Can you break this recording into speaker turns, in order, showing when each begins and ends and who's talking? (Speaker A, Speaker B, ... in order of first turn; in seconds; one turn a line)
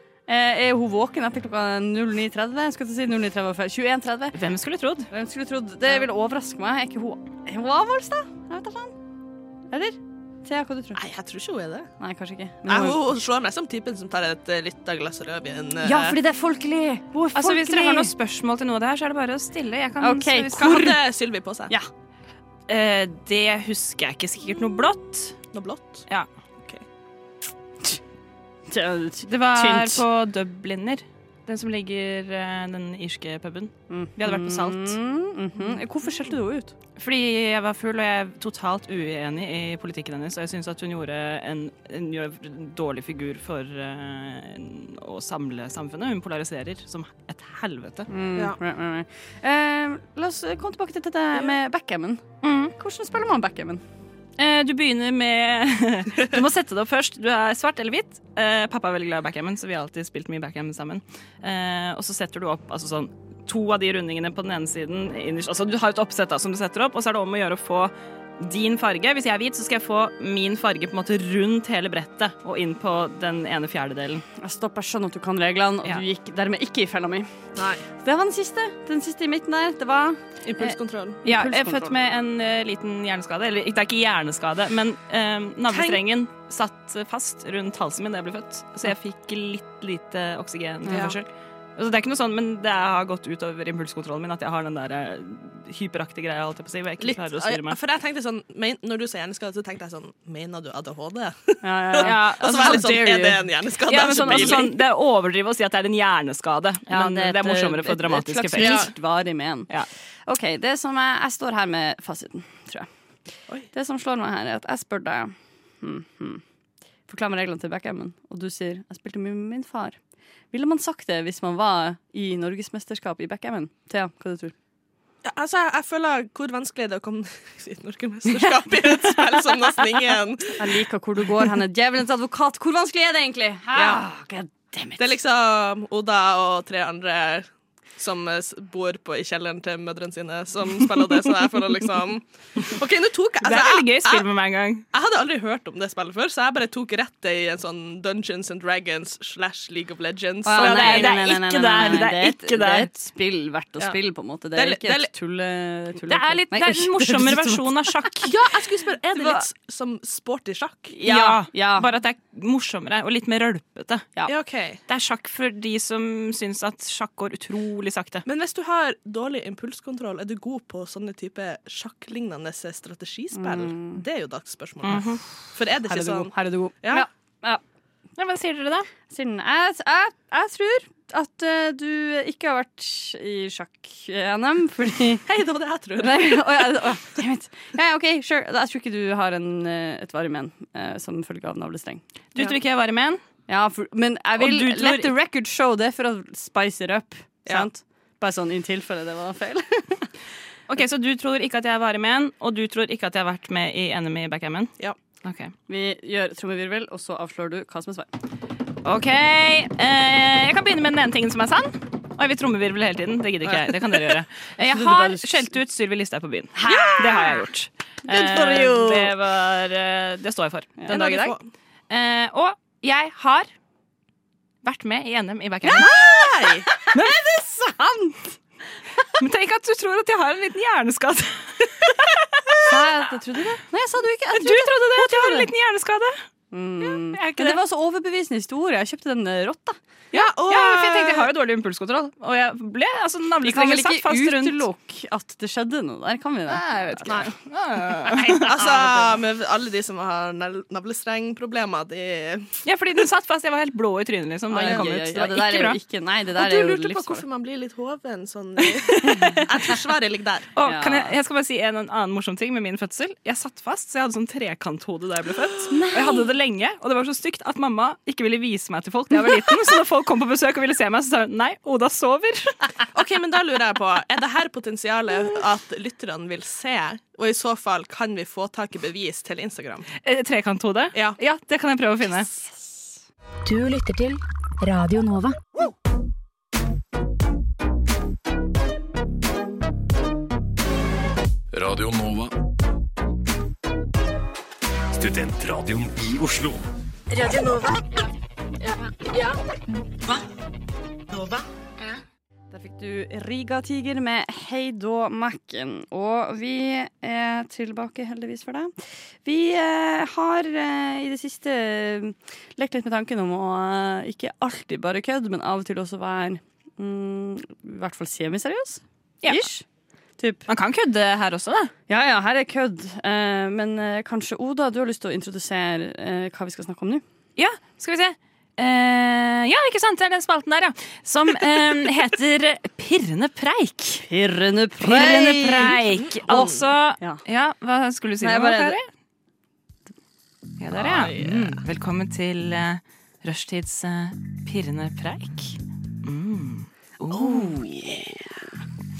Speaker A: 0.3-4.4
Speaker B: 4.3-5.1
Speaker A: 5.1-8.9
Speaker A: 9.7-11.0
Speaker C: 10.9-11.9
Speaker A: 12.0-13.0
Speaker C: 12.7-16.2
Speaker A: 15.8-18.1
Speaker B: 17.3-21.0
Speaker A: 20.0-20.9
Speaker C: 20.6-21.7
Speaker B: 22.7-25.4
Speaker C: 25.5-26.1
Speaker A: 28.7-30.0
Speaker B: 29.2-35.0
Speaker A: 33.9-36.7
Speaker B: 37.0-48.1
Speaker A: 48.1-52.2
Speaker B: 52.4-52.7
Speaker A: 52.7-53.8
Speaker B: 54.4-74.2
Speaker A: 74.4-77.3
Speaker C: 77.5-77.8
Speaker A: 78.0-80.7
Speaker C: 80.4-81.2
Speaker A: 81.2-81.9
Speaker B: 81.2-97.8
Speaker C: 85.7-86.0
Speaker A: 90.8-91.1
Speaker C: 90.9-91.2
Speaker C: 97.0-104.8
Speaker A: 101.6-103.3
Speaker B: 102.0-108.9
Speaker A: 104.3-104.7
Speaker A: 106.9-109.7
Speaker C: 108.5-108.9
Speaker A: 110.3-112.9
Speaker A: 113.7-116.4
Speaker A: 117.1-120.0
Speaker A: 120.5-124.5
Speaker C: 125.2-130.8
Speaker A: 130.6-135.2
Speaker C: 133.7-134.0
Speaker C: 135.0-144.3
Speaker B: 143.4-144.8
Speaker C: 144.9-151.2
Speaker A: 150.4-158.1
Speaker B: 150.6-152.9
Speaker C: 154.5-155.1
Speaker B: 156.1-158.3
Speaker C: 158.2-160.9
Speaker A: 159.1-159.5
Speaker A: 160.9-161.9
Speaker B: 161.1-164.1
Speaker C: 164.3-164.8
Speaker B: 164.9-168.2
Speaker C: 168.2-177.1
Speaker A: 173.3-174.0
Speaker B: 174.8-175.2
Speaker A: 175.8-177.6
Speaker B: 178.2-178.9
Speaker A: 179.1-185.2
Speaker C: 185.2-186.8
Speaker A: 186.0-192.0
Speaker B: 192.3-193.2
Speaker A: 193.5-200.1
Speaker B: 194.4-195.1
Speaker B: 200.7-204.7
Speaker B: 205.2-205.5
Speaker A: 205.7-208.1
Speaker B: 208.8-221.3
Speaker C: 213.5-213.8
Speaker A: 214.6-215.5
Speaker A: 216.6-217.4
Speaker C: 216.7-217.2
Speaker A: 218.1-219.1
Speaker A: 220.8-221.1
Speaker C: 220.9-221.4
Speaker B: 221.9-223.5
Speaker B: 224.6-225.9
Speaker C: 225.6-226.7
Speaker A: 225.7-228.2
Speaker B: 226.9-227.2
Speaker B: 229.2-232.7
Speaker A: 232.6-235.5
Speaker B: 234.3-236.2
Speaker A: 236.5-239.8
Speaker B: 237.1-237.6
Speaker C: 240.1-241.3
Speaker B: 240.1-244.6
Speaker A: 243.4-247.3
Speaker B: 246.5-248.6
Speaker C: 248.1-252.6
Speaker B: 252.6-255.8
Speaker A: 254.5-257.2
Speaker C: 254.6-254.9
Speaker C: 256.3-260.5
Speaker B: 258.7-259.4
Speaker B: 260.5-272.6
Speaker A: 260.6-261.1
Speaker A: 265.7-266.3
Speaker C: 272.9-279.9
Speaker B: 280.0-282.3
Speaker D: 283.4-285.4
Speaker E: 291.5-292.3
Speaker E: 294.9-296.6
Speaker D: 297.1-298.0
Speaker D: 298.7-299.3
Speaker A: 302.5-308.7
Speaker A: 309.2-319.6
Speaker A: 320.2-320.5
Speaker B: 320.5-321.7
Speaker A: 321.9-327.0
Speaker B: 327.4-334.0
Speaker A: 334.0-335.8
Speaker B: 334.8-338.8
Speaker C: 335.9-336.5
Speaker A: 338.2-338.8
Speaker B: 340.6-348.1
Speaker C: 340.7-341.6
Speaker A: 341.2-341.5
Speaker A: 347.1-348.4